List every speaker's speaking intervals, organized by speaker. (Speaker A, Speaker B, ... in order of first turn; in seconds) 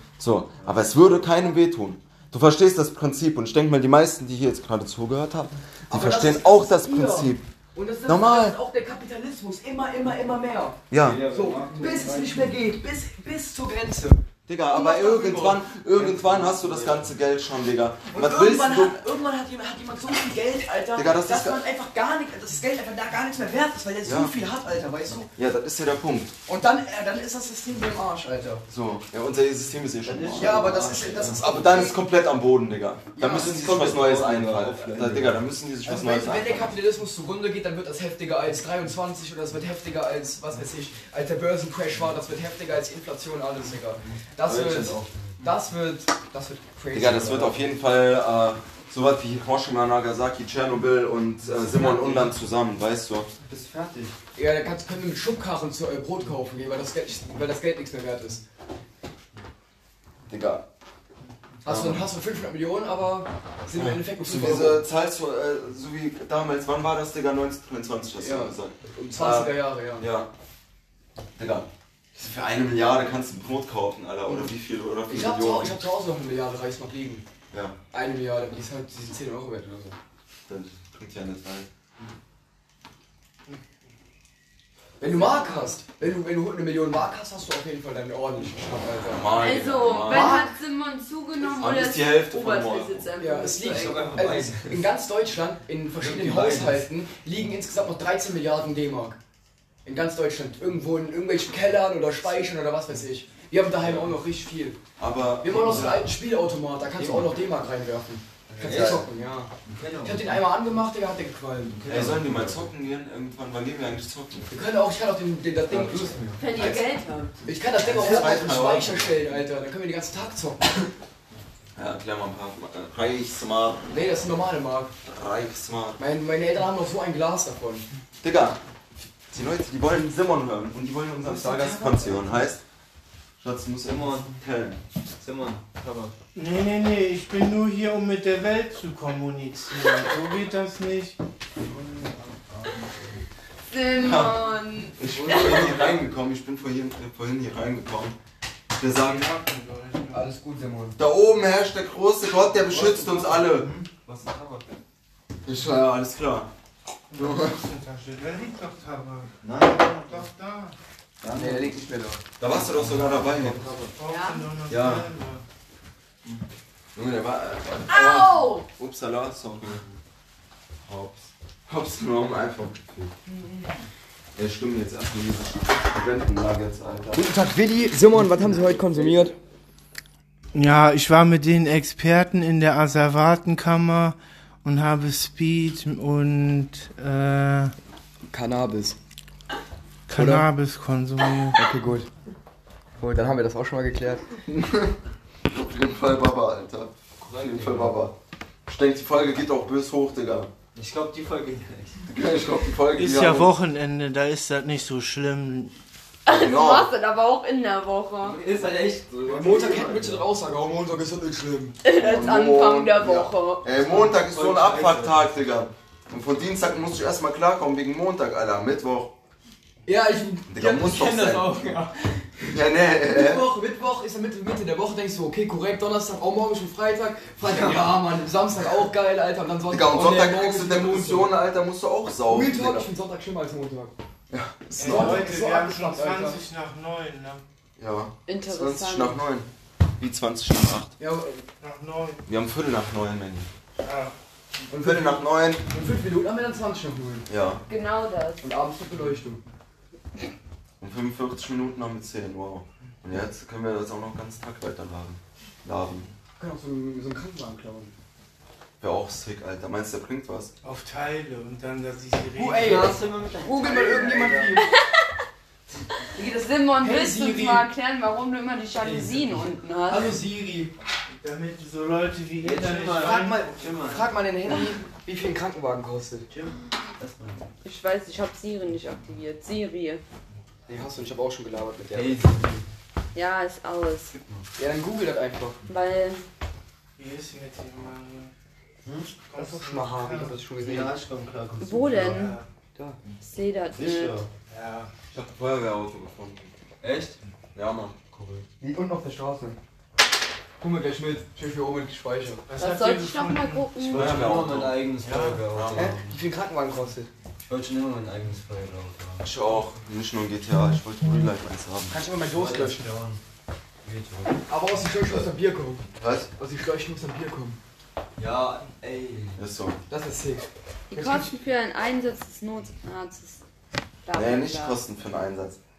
Speaker A: 0.2-7.5, 8.0-8.6, 10.9-11.2, 14.5-19.0, 20.9-21.6, 24.0-24.3, 25.4-26.3, 28.7-36.7, 44.5-45.0, 46.9-53.3, 60.3-60.6, 61.6-62.1, 63.8-70.3, 71.3-75.8, 77.5-77.8, 80.5-81.7, 89.1-90.4, 91.4-93.1, 105.0-106.0, 108.6-109.1, 111.9-114.5, 117.8-119.2, 121.8-123.9, 125.0-126.0, 128.2-128.6, 129.2-132.6, 133.4-134.8, 144.0-144.4, 145.0-148.2, 148.7-149.3, 151.0-153.7, 155.4-156.5, 157.2-157.6, 162.4-163.7, 164.7-165.1, 166.9-169.8, 171.7-173.1, 174.3-177.2, 194.5-194.9, 195.5-198.1, 198.7-200.5, 202.1-203.5, 206.3-206.9, 211.9-219.1, 220.5-221.5, 222.5-223.5, 229.7-232.9, 234.3-235.3, 237.8-239.5, 240.0-240.9, 242.2-243.5, 244.8-245.7, 247.3-247.6, 250.8-256.1, 258.8-260.5, 293.7-294.3, 295.1-296.5, 297.6-297.9, 303.9-304.9, 305.5-305.9, 309.2-312.0, 316.0-316.3, 319.4-319.8, 324.1-325.6
Speaker B: 5.9-15.6, 18.1-25.3, 26.4-28.6, 30.4-32.0, 33.1-33.6, 35.8-47.6, 51.8-52.3, 54.3-58.4, 61.6-64.8, 68.2-70.1, 74.2-74.5, 75.1-77.2, 77.9-80.0, 85.0-89.2, 90.0-90.5, 93.2-99.2, 99.8-104.8, 105.4-112.1, 114.5-116.8, 117.4-120.9, 123.9-124.9, 126.0-127.9, 131.2-132.4, 150.1-151.0, 161.3-162.2, 177.1-179.3, 188.3-189.0, 190.1-190.4, 191.5-192.1, 193.0-194.3, 209.2-211.8, 219.8-231.3, 232.3-233.9, 234.7-236.4, 241.0-241.4, 244.7-247.3, 248.4-249.4, 256.4-257.9, 262.3-264.7, 266.8-267.7, 269.9-270.7, 273.8-276.3, 280.7-282.2, 284.6-285.6, 289.3-291.0, 292.7-293.0, 298.6-299.6, 300.6-302.4, 305.7-307.1, 311.9-312.9, 314.5-317.6, 319.9-321.3
Speaker C: 10.9-12.5, 15.9-17.0, 30.0-31.8, 33.3-35.4, 45.0-45.3, 51.8-52.1, 53.5-54.2, 93.7-94.9, 96.0-96.9, 103.8-104.2, 105.5-106.1, 107.0-107.3, 108.5-109.1, 109.6-110.4, 111.8-112.7, 115.7-116.3, 117.9-118.2, 133.8-134.3, 135.2-136.1, 141.6-143.2, 145.0-146.1, 152.6-154.8, 159.5-160.2, 161.2-161.7, 162.5-163.9, 164.7-165.0, 170.8-171.3, 197.2-198.1, 200.7-202.1, 208.2-210.3, 214.0-215.2, 227.4-227.9, 262.5-264.6, 268.8-269.2, 272.4-274.1, 276.3-277.5, 281.9-282.7, 288.8-289.2, 290.6-292.3, 296.8-297.2, 298.1-298.4, 303.8-306.2, 307.4-309.3, 312.2-313.2, 313.8-314.4, 318.2-319.4
Speaker D: 85.0-85.8, 89.4-94.3, 116.4-117.3, 143.7-145.0, 164.1-164.4, 167.9-168.7, 173.3-173.7, 206.2-208.4, 211.8-213.7, 238.3-239.2, 247.7-248.5, 264.5-265.2, 266.1-270.1, 277.6-280.0, 283.1-284.2, 285.7-286.2, 291.6-292.4, 293.2-294.2, 302.6-304.4, 320.9-323.4, 324.0-324.8
Speaker E: 136.3-141.2, 148.8-150.3, 157.1-160.7, 163.9-165.4, 180.5-187.7, 190.1-191.6, 202.9-205.7, 234.8-237.4, 241.6-242.2, 243.8-244.1, 260.6-263.0, 271.1-273.8, 287.0-288.3, 289.3-290.4, 292.0-292.5, 294.5-294.9, 302.5-303.7, 305.0-305.5